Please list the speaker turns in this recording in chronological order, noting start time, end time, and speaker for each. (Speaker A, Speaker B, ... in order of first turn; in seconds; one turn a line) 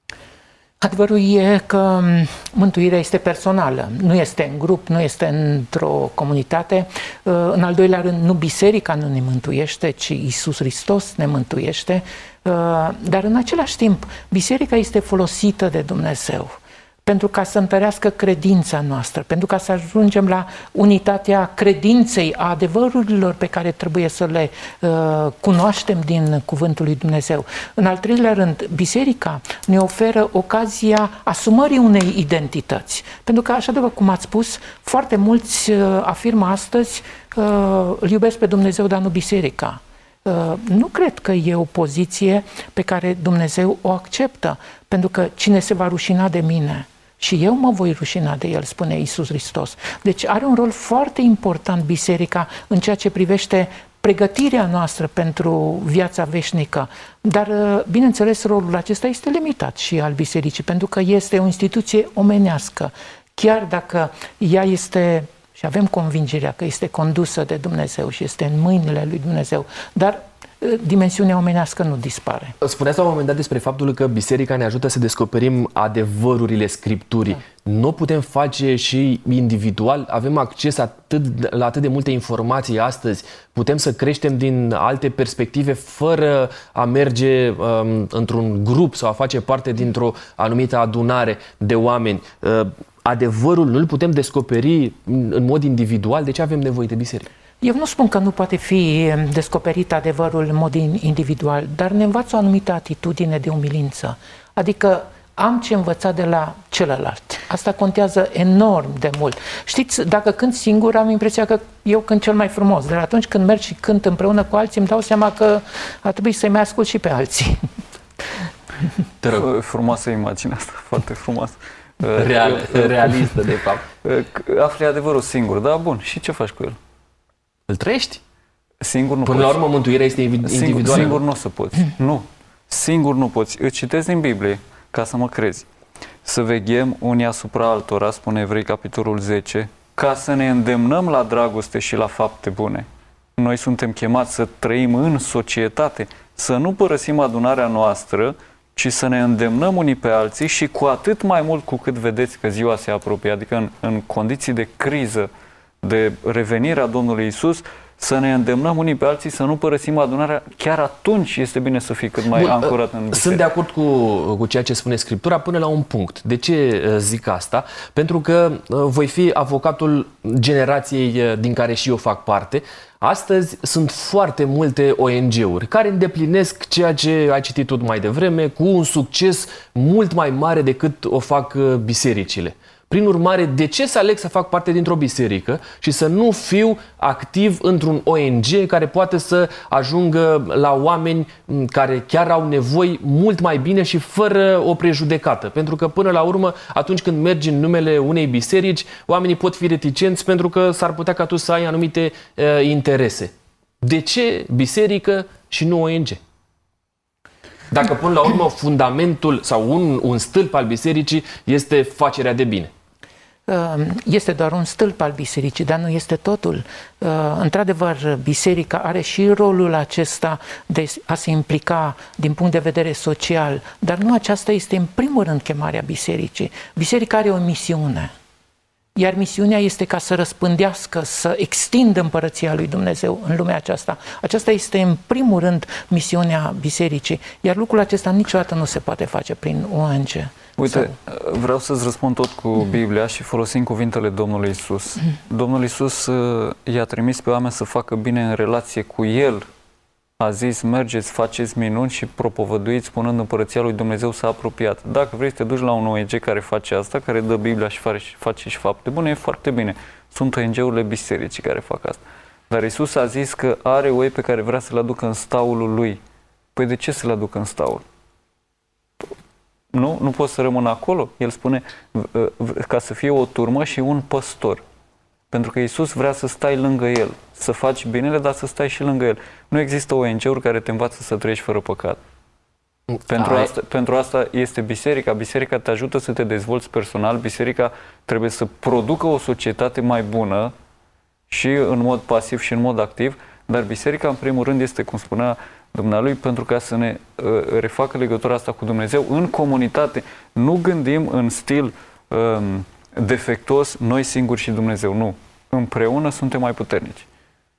Speaker A: 0.8-72.5
Speaker B: 72.6-97.3
Speaker A: 97.6-117.6
Speaker B: 119.2-119.5
Speaker C: 119.3-123.3
Speaker B: 122.2-123.9
Speaker C: 124.0-126.8
Speaker B: 127.7-128.2
Speaker C: 128.8-129.6
Speaker B: 129.2-131.2
Speaker C: 130.4-135.7
Speaker C: 136.2-142.8
Speaker C: 143.4-155.3
Speaker C: 155.8-163.4
Speaker B: 162.3-206.2
Speaker B: 207.7-212.7
Speaker A: 213.5-228.1
Speaker A: 228.9-240.9
Speaker C: 240.6-249.4
Speaker C: 250.2-266.0
Speaker C: 266.6-267.8
Speaker C: 269.7-274.6
Speaker C: 275.3-282.0
Speaker C: 283.1-290.5
Speaker B: 283.1-283.5
Speaker C: 291.3-307.1